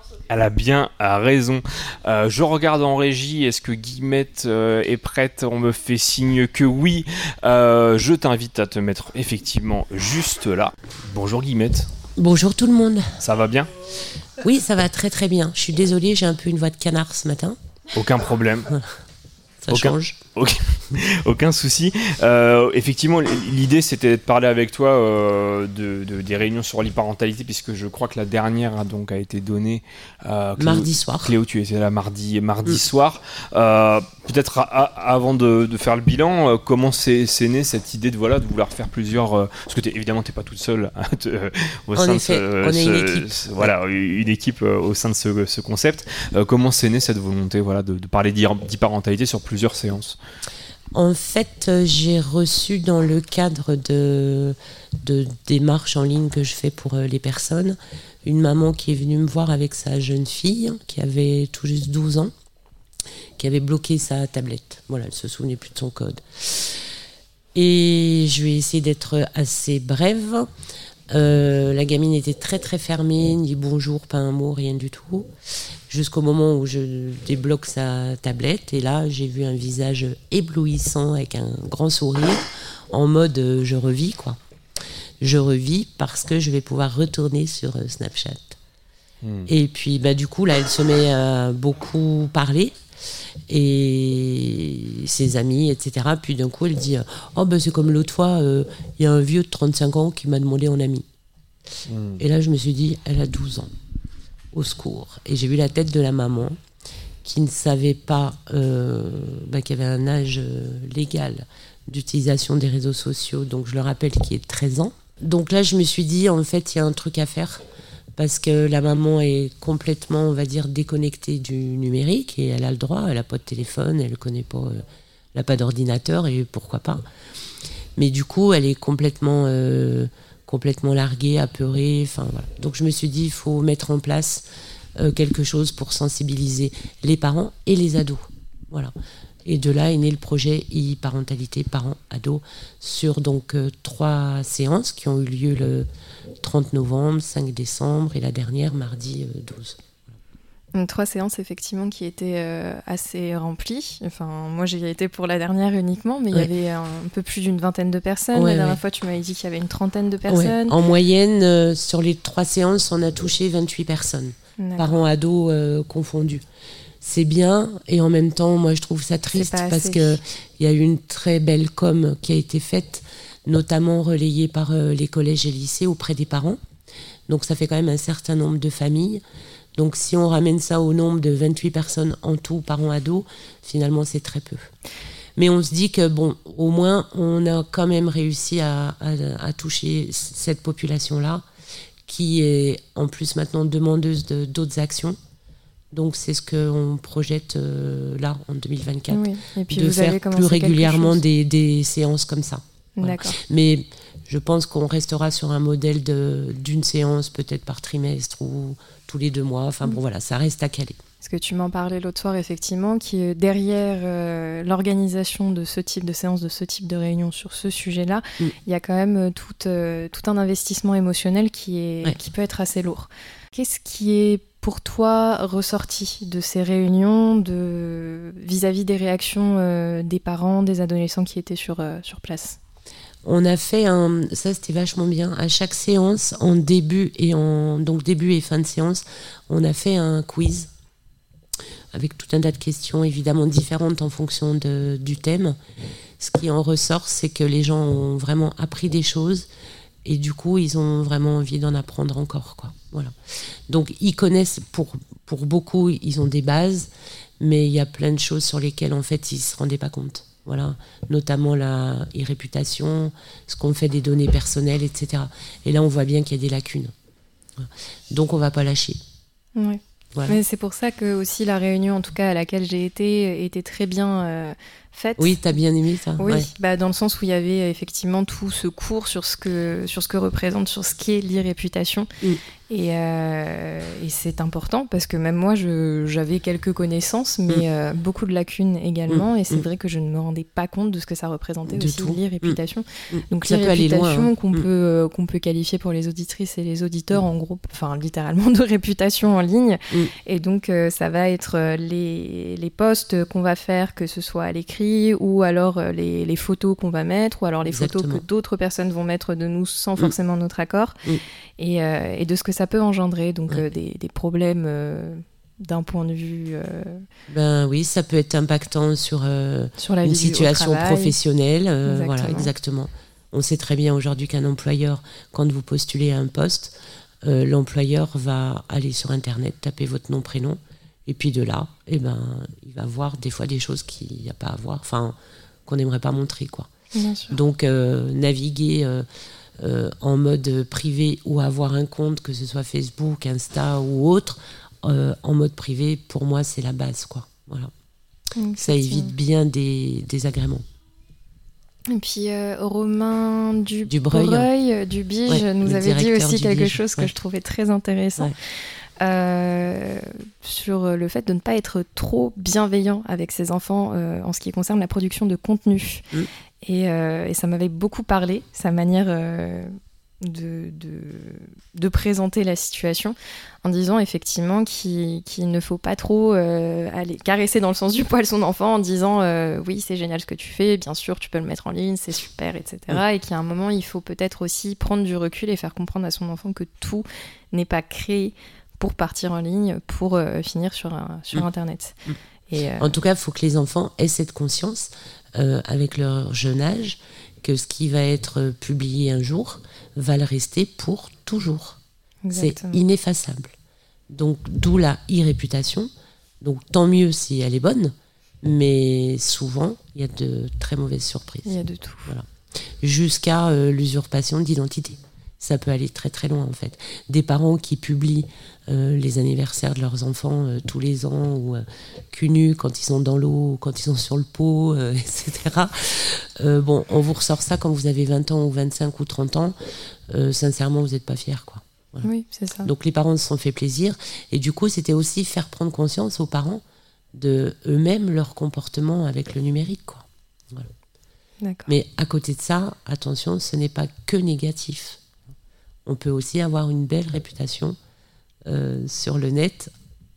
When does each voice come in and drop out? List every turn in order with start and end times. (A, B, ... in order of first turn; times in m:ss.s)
0:00.3-0:11.9 A
0:12.2-0:13.1 B
0:13.2-0:13.7 A
0:14.4-0:17.6 B
0:18.0-0:18.7 A
0:19.6-0:20.2 B
0:19.7-0:50.2 A
0:30.6-0:31.3 B
0:41.9-0:43.7 B
0:50.9-1:02.3 B
1:03.4-1:06.8 B
1:07.6-1:10.5 B
1:11.1-1:15.3 B
1:15.9-1:24.4 B
1:25.2-1:28.6 B
1:29.2-1:29.5 A
1:29.5-1:32.8 B
1:33.5-1:41.0 B
1:41.9-1:42.2 A
1:42.2-1:43.7 B
1:44.5-1:46.6 B
1:47.2-1:57.6 B
1:58.2-2:07.0 B
2:08.0-2:14.4 B
2:15.0-2:18.9 B
2:19.4-2:25.9 B
2:26.4-2:30.2 B
2:30.8-2:40.8 C
2:38.3-2:38.8 B
2:40.3-2:46.4 B
2:44.6-2:44.9 C
2:47.0-2:56.6 B
2:49.3-2:50.2 C
2:57.3-2:59.2 B
2:59.8-3:04.7 B
3:05.4-3:11.4 B
3:12.1-3:15.2 B
3:15.9-3:31.0 B
3:19.1-3:21.2 C
3:23.0-3:23.4 C
3:31.2-3:52.6 C
3:53.2-4:00.7 B
4:01.9-4:05.6 B
4:06.2-4:09.5 B
4:10.0-4:13.1 B
4:13.7-4:26.9 B
4:27.6-4:29.0 B
4:29.6-4:35.4 C
4:35.2-4:36.5 B
4:36.2-4:42.1 C
4:42.7-5:11.0 C
4:49.1-4:49.6 B
4:51.7-4:52.6 B
4:53.1-4:54.7 B
5:07.7-5:08.2 B
5:11.6-5:17.0 C
5:17.3-5:36.7 B
5:19.8-5:21.2 C
5:21.9-5:22.5 C
5:36.9-5:37.4 C
5:37.3-5:39.1 B
5:39.6-5:47.7 B
5:48.4-5:49.1 C
5:48.6-5:50.6 B
5:51.9-5:58.3 C
5:53.9-5:54.5 B
5:55.3-5:57.1 B
5:59.0-6:06.0 C
6:06.6-6:32.9 C
6:32.8-6:41.8 B
6:42.2-6:42.8 C
6:42.3-6:43.5 B
6:44.1-6:45.9 B
6:46.4-6:52.3 B
6:51.5-6:52.1 C
6:52.8-7:09.6 B
7:10.1-7:12.1 B
7:12.0-7:12.7 C
7:12.6-7:16.6 B
7:17.1-7:20.7 B
7:21.4-7:21.7 C
7:21.7-7:25.0 B
7:25.9-7:27.8 B
7:28.5-7:29.7 B